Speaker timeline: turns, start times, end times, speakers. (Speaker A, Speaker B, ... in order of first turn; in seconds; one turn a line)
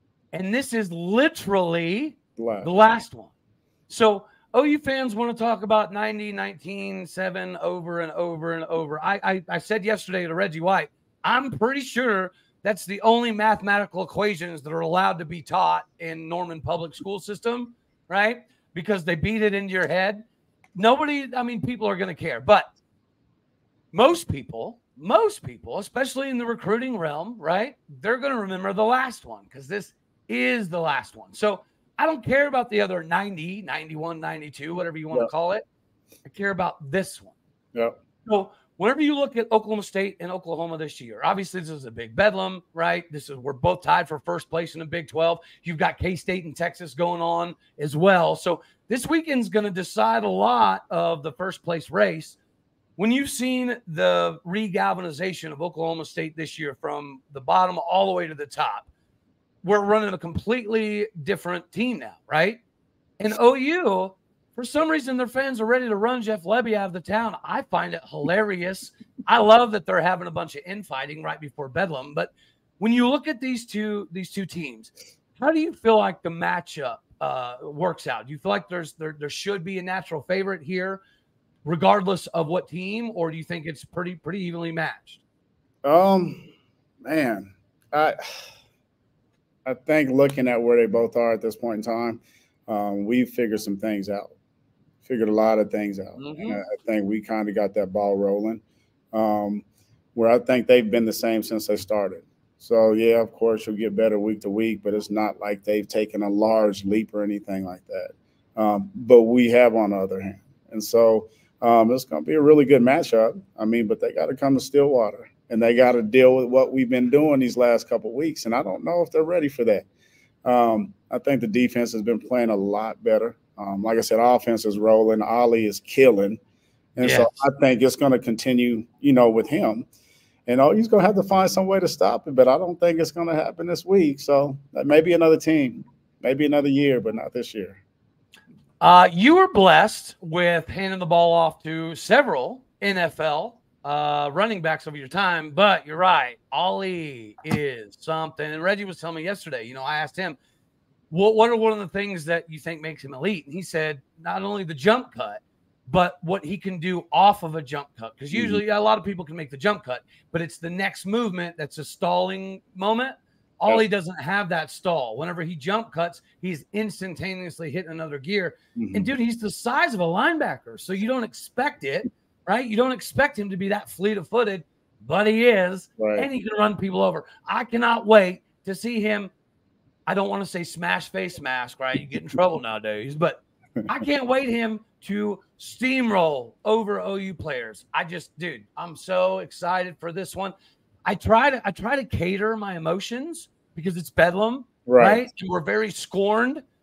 Speaker A: 0.3-3.3
Speaker B: 2.4-2.7
Speaker A: 3.9-20.2
Speaker A: 20.8-22.7
Speaker A: 23.9-35.6
Speaker A: 36.2-37.4
Speaker A: 38.3-52.4
Speaker A: 53.0-58.9
Speaker A: 59.6-62.6
Speaker A: 63.2-81.0
Speaker A: 81.7-85.2
Speaker B: 85.8-86.5
Speaker B: 87.0-88.2
Speaker B: 89.7-94.3
Speaker B: 95.0-119.9
Speaker A: 96.2-96.6
Speaker B: 120.5-126.4
Speaker B: 127.0-129.9
Speaker A: 127.0-127.4
Speaker B: 130.5-137.8
Speaker A: 138.8-150.4
Speaker A: 151.1-179.3
Speaker B: 158.3-158.6
Speaker B: 168.8-169.1
Speaker B: 176.0-176.3
Speaker A: 180.1-190.5
Speaker A: 191.1-196.6
Speaker B: 194.9-195.3